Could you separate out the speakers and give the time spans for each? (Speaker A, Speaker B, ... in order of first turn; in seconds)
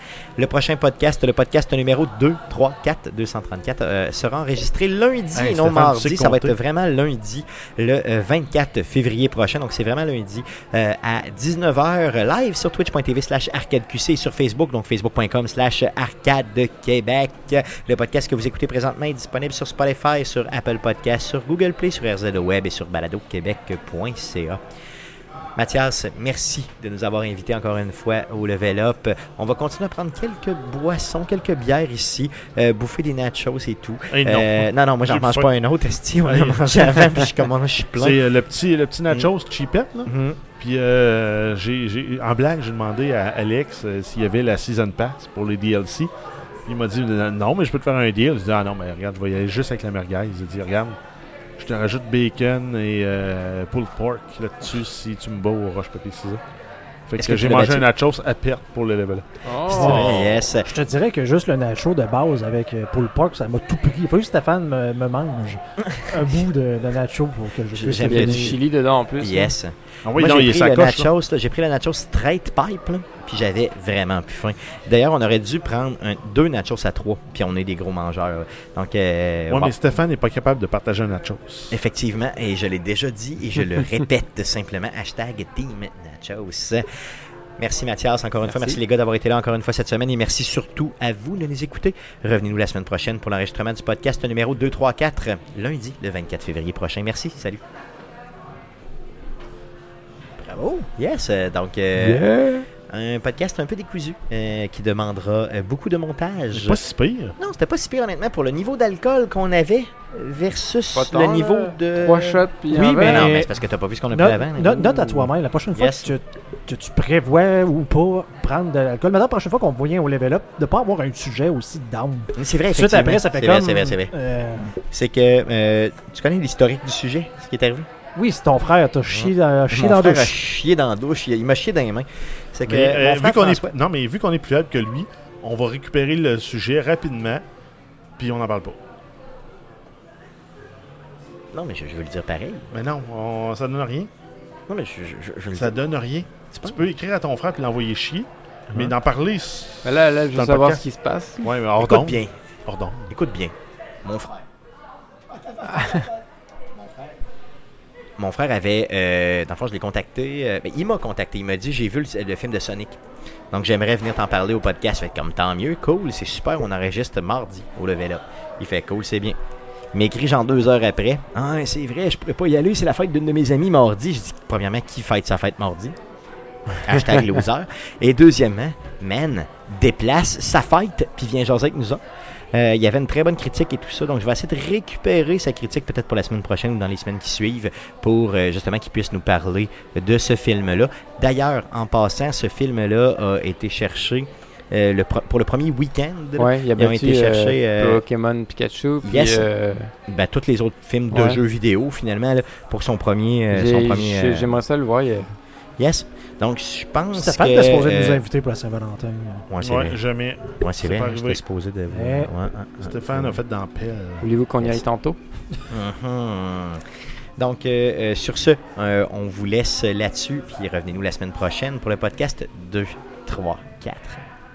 Speaker A: 0.4-24.6, 25.6-38.2, 40.1-40.4, 57.2-57.9, 59.7-60.7, 67.7-68.6, 69.2-79.8, 81.7-86.8, 87.6-97.6, 100.4-102.3, 102.8-106.8, 107.4-112.5, 113.0-116.2, 122.3-124.1, 124.9-127.9, 129.1-133.7, 141.5-142.7, 144.7-145.8, 146.5-146.9, 151.8-152.3, 153.1-154.4, 155.5-156.0, 158.2-163.0, 163.5-169.4, 169.9-176.0, 176.7-182.0, 182.5-198.0, 199.0-199.5, 200.1-204.6, 205.8-208.2, 209.5-210.0, 210.6-213.4, 214.6-214.8, 215.7-216.8, 217.4-224.2
Speaker B: 5.3-6.6, 34.1-35.5, 36.2-37.2, 38.0-46.1, 46.7-51.0, 51.6-56.4, 57.1-60.2, 70.0-71.1, 79.5-81.8, 106.5-107.3, 132.7-137.4, 138.2-138.8, 142.7-144.1, 145.5-150.8, 151.4-153.1, 209.6-211.4, 212.8-214.3
Speaker C: 59.4-60.1, 68.0-69.5, 88.5-88.8, 102.0-102.7, 110.9-113.3, 149.8-151.5, 196.4-199.9, 201.1-201.4, 203.5-205.4, 214.2-215.2
Speaker D: 59.8-60.1, 60.6-68.6, 112.7-113.5, 114.1-124.7, 128.2-130.4, 207.1-209.5, 211.9-212.3